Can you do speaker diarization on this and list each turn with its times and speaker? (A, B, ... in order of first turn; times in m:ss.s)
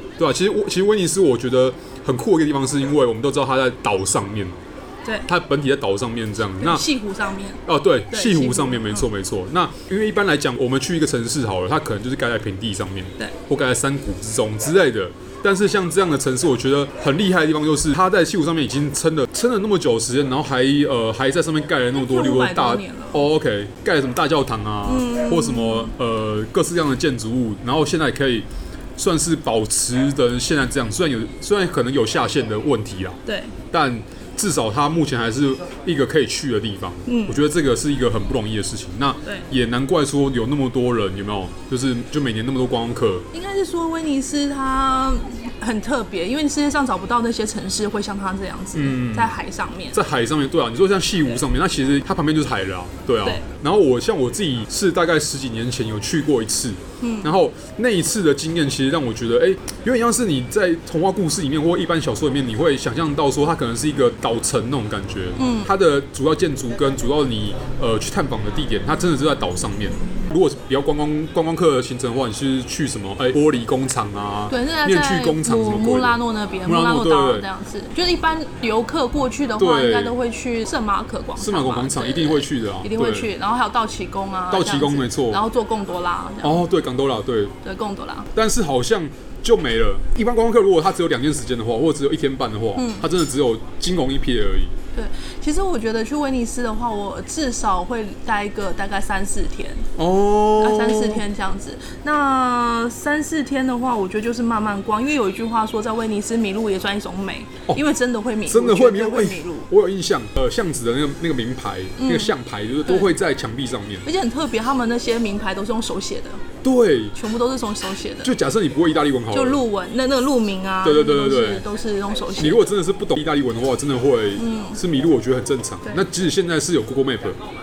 0:00.2-0:04.6 A
0:05.0-0:05.3 B
0:05.3-0:06.8 A
0:06.6-0:09.1 B
0:07.7-0:28.5 A
0:22.0-0:23.3 B
0:24.8-0:25.9 B
0:29.0-0:33.2 A
0:33.3-0:33.5 B
0:33.7-0:43.3 A
0:37.0-0:37.4 B
0:43.3-0:50.0 B
0:48.7-0:49.3 A
0:49.9-1:17.5 A
0:57.0-0:57.3 B
1:05.4-1:05.7 B
1:14.5-1:26.6 B
1:19.6-1:20.1 A
1:21.4-1:23.3 A
1:24.5-1:25.4 A
1:26.4-1:27.5 A
1:27.6-1:28.3 B
1:28.3-1:34.7 A
1:32.8-1:33.1 B
1:34.9-1:39.9 B
1:40.0-1:41.2 A
1:40.6-1:49.7 B
1:48.5-1:54.1 A
1:52.0-1:53.1 B
1:54.0-1:56.4 B
1:56.6-1:57.2 A
1:57.1-1:58.3 B
1:58.2-1:59.6 A
1:59.3-2:02.7 B
2:00.8-2:01.6 A
2:02.4-2:07.4 A
2:04.4-2:04.8 B